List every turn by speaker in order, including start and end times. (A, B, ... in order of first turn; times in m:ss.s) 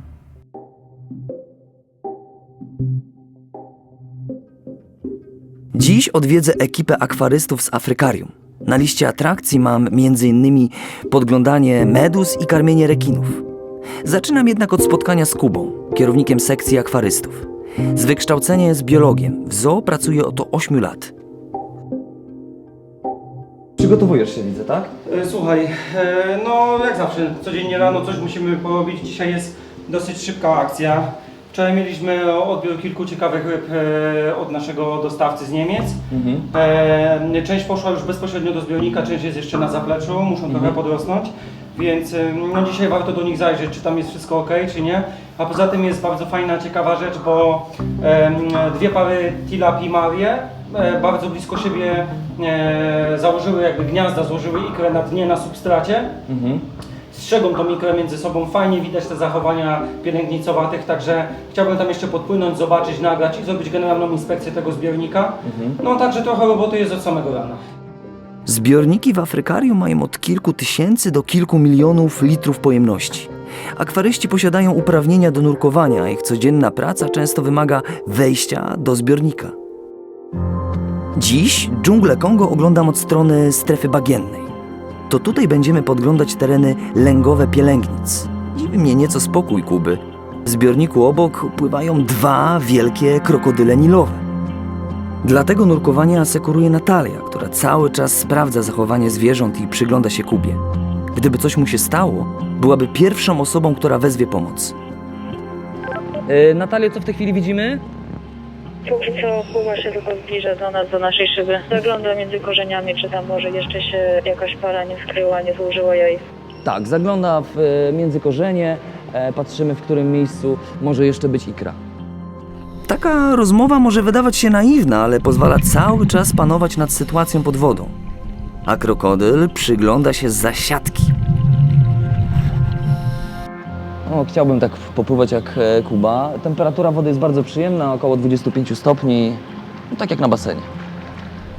0:05.7-0:13.4 A
0:14.0-0:21.1 A
0:23.8-0:24.9 B
0:25.0-0:36.0 C
0:36.1-0:36.4 B
0:36.5-0:56.2 C
0:40.5-0:40.8 B
0:56.3-0:56.6 B
0:57.1-1:07.6 C
1:05.4-1:05.8 B
1:08.4-1:19.6 A
1:21.2-1:24.5 A
1:25.1-1:34.2 A
1:35.2-1:40.6 A
1:41.1-1:44.7 A
1:46.3-1:47.8 B
1:48.9-1:56.2 D
1:56.6-2:01.8 B
2:02.9-2:07.9 A
2:08.6-2:11.1 A
2:14.1-2:20.7 B